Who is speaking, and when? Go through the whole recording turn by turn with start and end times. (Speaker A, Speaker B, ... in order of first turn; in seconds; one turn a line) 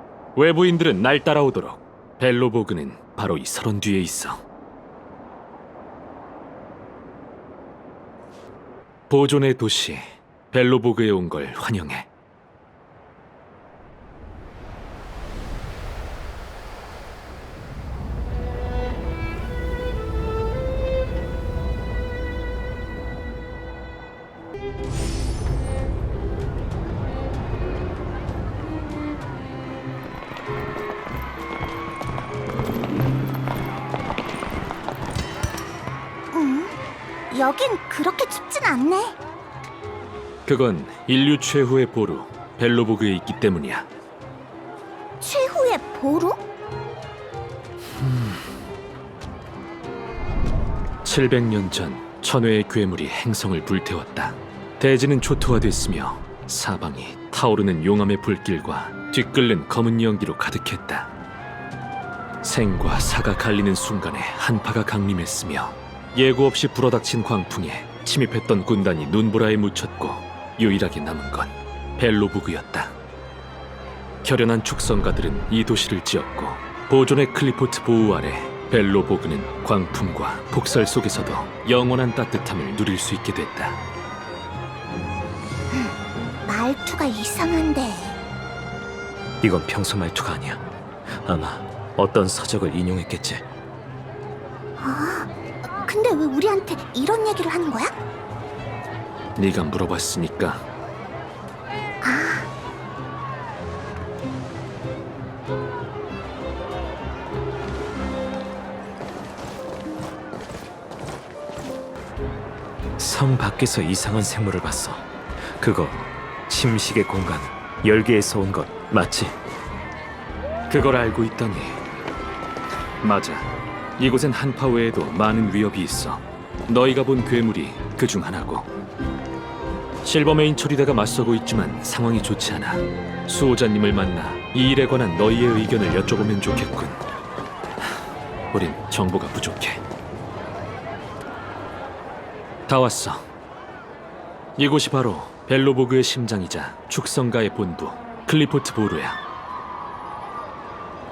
Speaker A: 0.4-4.4
Speaker A: 9.1-12.1
Speaker B: 36.3-36.8
Speaker B: 37.3-39.2
Speaker A: 40.5-43.9
Speaker B: 45.2-46.4
Speaker A: 48.0-48.4
Speaker A: 51.0-61.1
Speaker A: 62.4-72.9
Speaker A: 74.2-83.8
Speaker B: 86.5-88.2
Speaker C: 89.4-90.6
Speaker C: 91.2-93.4
Speaker B: 94.8-95.3
Speaker B: 95.8-97.9
Speaker A: 99.4-100.6
Speaker B: 102.0-102.5
Speaker C: 113.0-119.4
Speaker A: 120.7-121.8
Speaker A: 123.0-128.7
Speaker A: 130.0-137.0
Speaker A: 138.5-139.8
Speaker A: 142.7-143.2
Speaker A: 144.6-149.2